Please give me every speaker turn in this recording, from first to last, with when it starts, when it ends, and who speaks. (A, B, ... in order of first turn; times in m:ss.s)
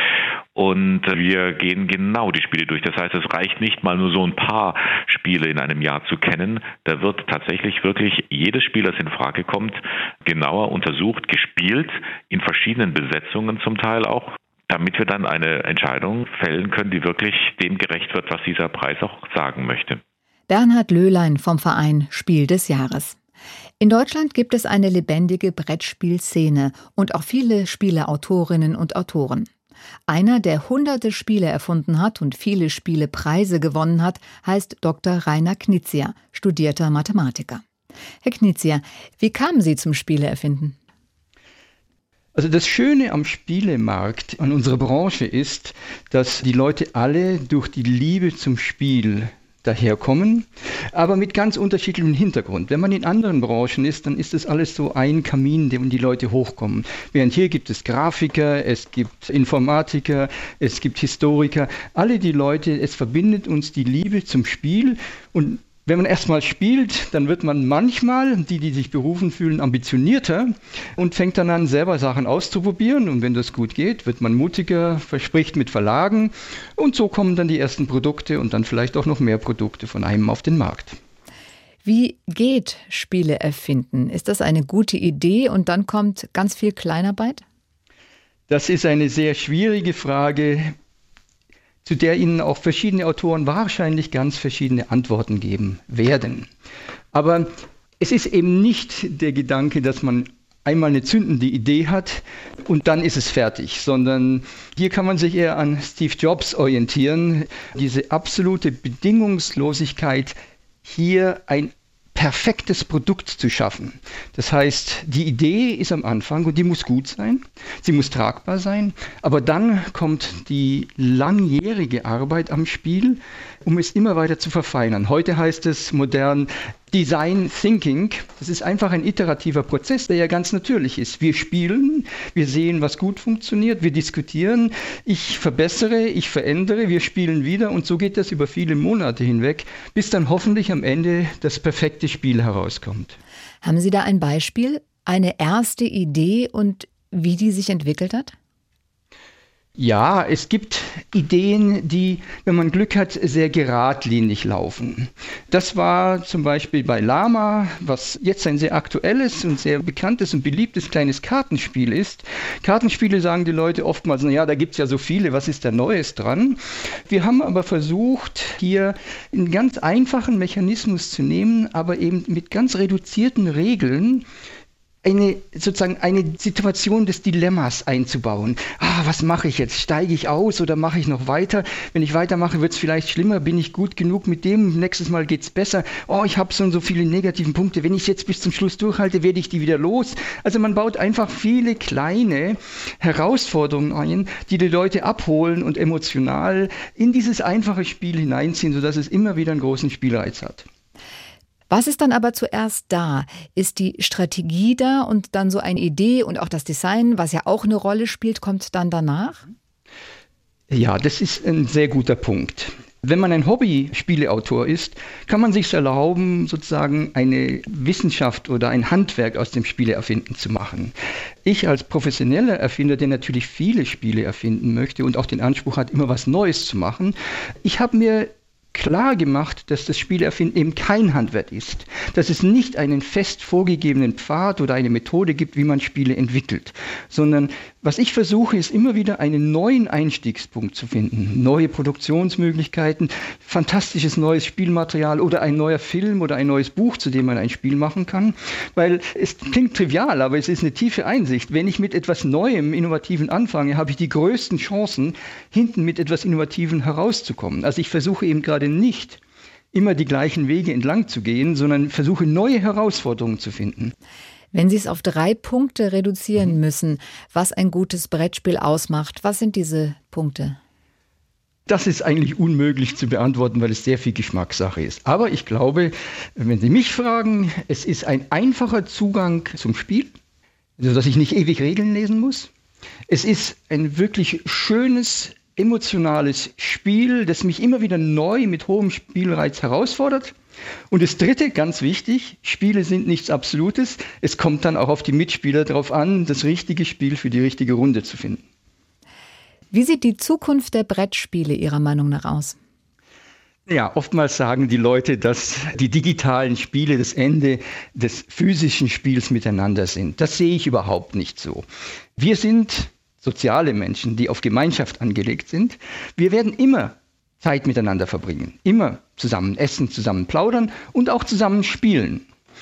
0:00.5-0:20.0 A
0:20.5-0:23.2 B
0:23.8-0:29.5 B
0:30.1-0:37.6 B
0:38.2-0:40.8 B
0:42.3-1:21.0 C
1:21.8-1:27.4 B
1:28.5-1:30.7 C
1:31.8-1:36.5 C
1:37.1-2:23.2 C
2:23.6-2:28.3 B
2:29.8-2:54.2 C
2:55.0-3:20.6 C
3:21.7-3:29.4 B
3:30.7-3:40.9 C
3:41.4-4:19.2 C
4:19.7-4:23.9 C
4:24.5-4:30.6 B
4:31.7-4:40.1 C
4:40.8-4:42.5 C
4:43.1-4:50.3 C
4:50.9-4:58.4 C
4:59.7-5:02.6 B
5:03.7-5:11.6 C
5:12.2-5:22.2 C